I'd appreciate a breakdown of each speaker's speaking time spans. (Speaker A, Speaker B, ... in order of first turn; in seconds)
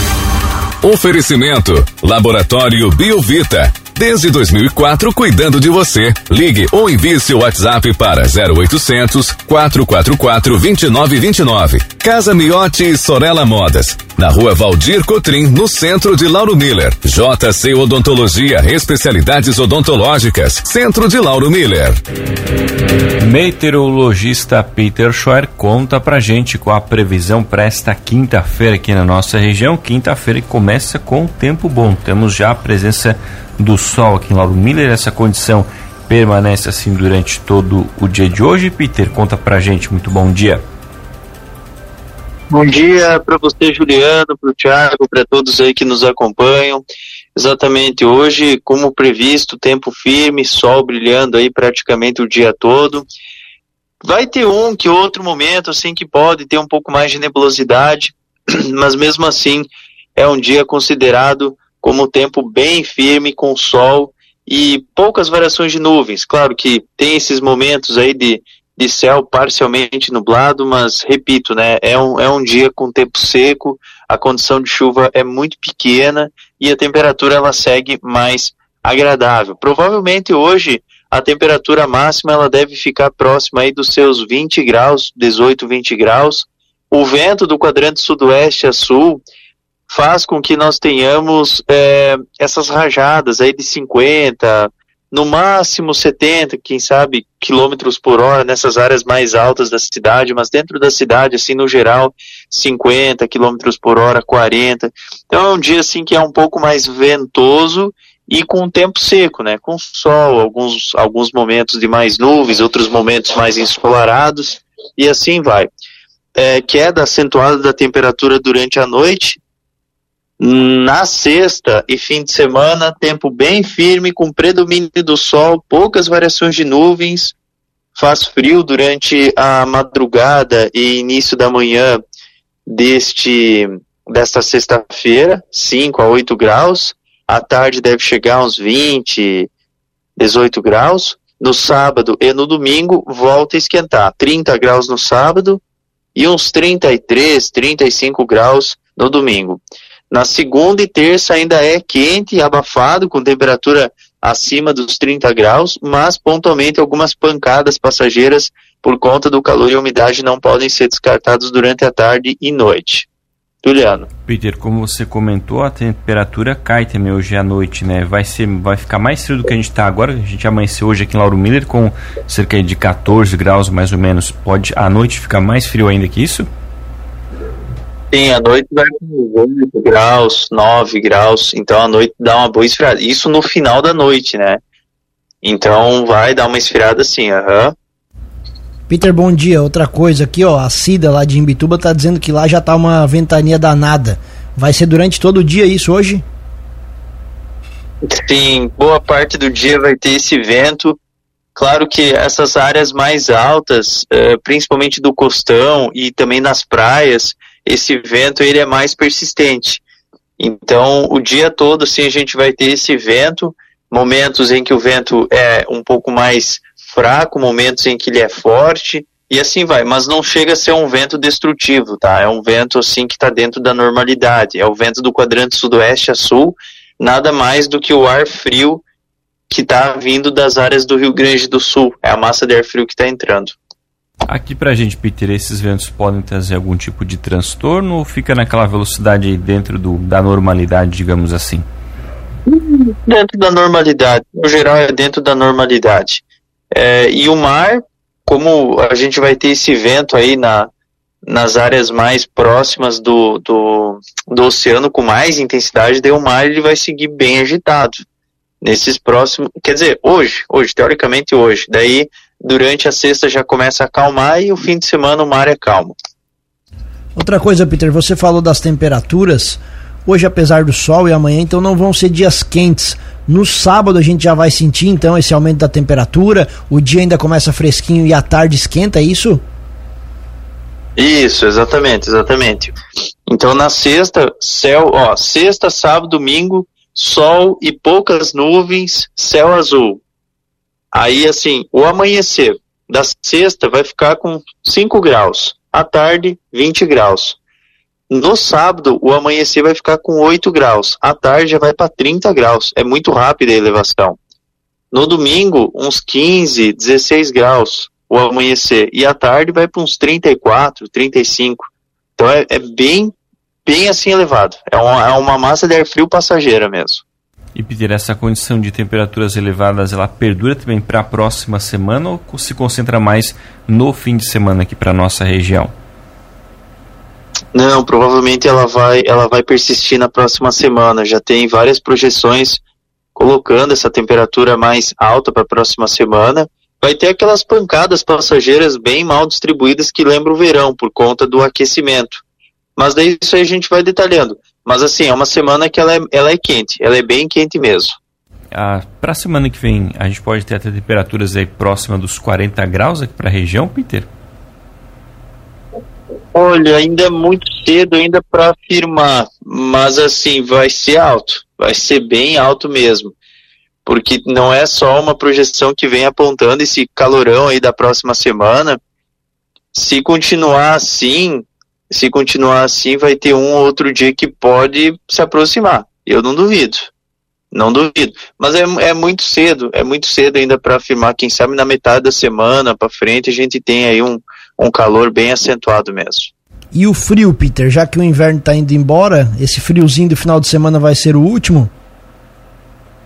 Speaker A: 0.8-22.0
Speaker B: 23.2-40.6, 164.3-176.5, 234.3-241.7, 317.5-325.7, 348.5-354.1
Speaker C: 42.5-46.8, 47.4-53.1, 54.0-89.2, 89.9-115.7, 116.3-119.4, 120.4-127.3, 128.0-132.0, 132.7-139.5, 140.2-145.6, 146.1-163.1, 163.6-164.1, 178.1-184.6, 185.4-187.7, 198.0-201.0, 201.6-209.8, 210.4-228.8, 229.5-233.6, 242.5-250.7, 251.2-258.0, 258.6-265.9, 281.0-282.7, 283.3-290.0, 290.9-297.4, 298.1-304.2, 304.9-313.1, 313.6-317.0, 327.5-332.6, 333.1-342.2, 342.8-348.0, 356.3-363.1, 363.9-368.8, 369.7-376.9, 377.5-386.3
Speaker D: 188.9-196.2, 267.1-279.4, 386.7-391.7